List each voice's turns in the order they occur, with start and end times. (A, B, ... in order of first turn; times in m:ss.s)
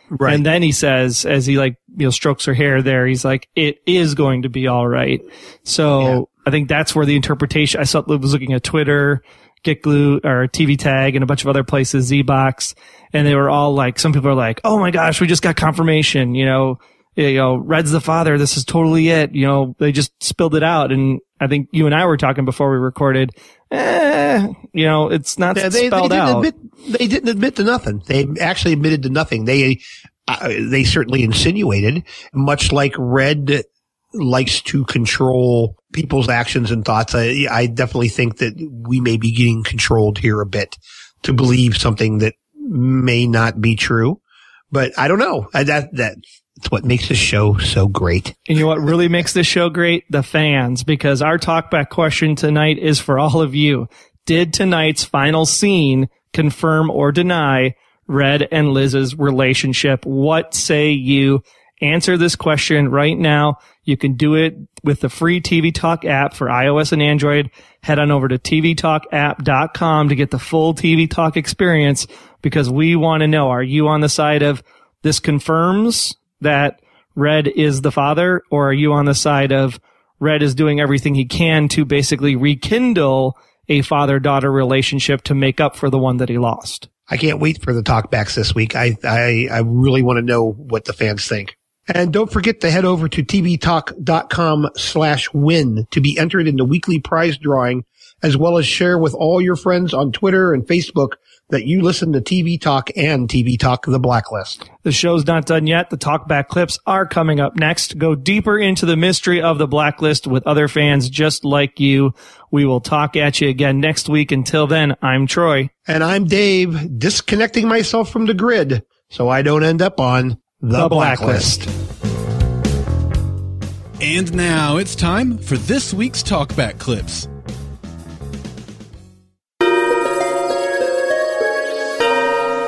0:00.1-0:00.4 A
0:00.2-0:26.5 B
0:25.5-0:44.2 A
0:44.7-0:48.4 A
0:48.5-1:26.9 B
1:27.1-1:44.6 A
1:44.8-1:55.7 B
1:55.9-2:01.7 A
2:00.8-2:01.6 B
2:04.0-2:07.3 C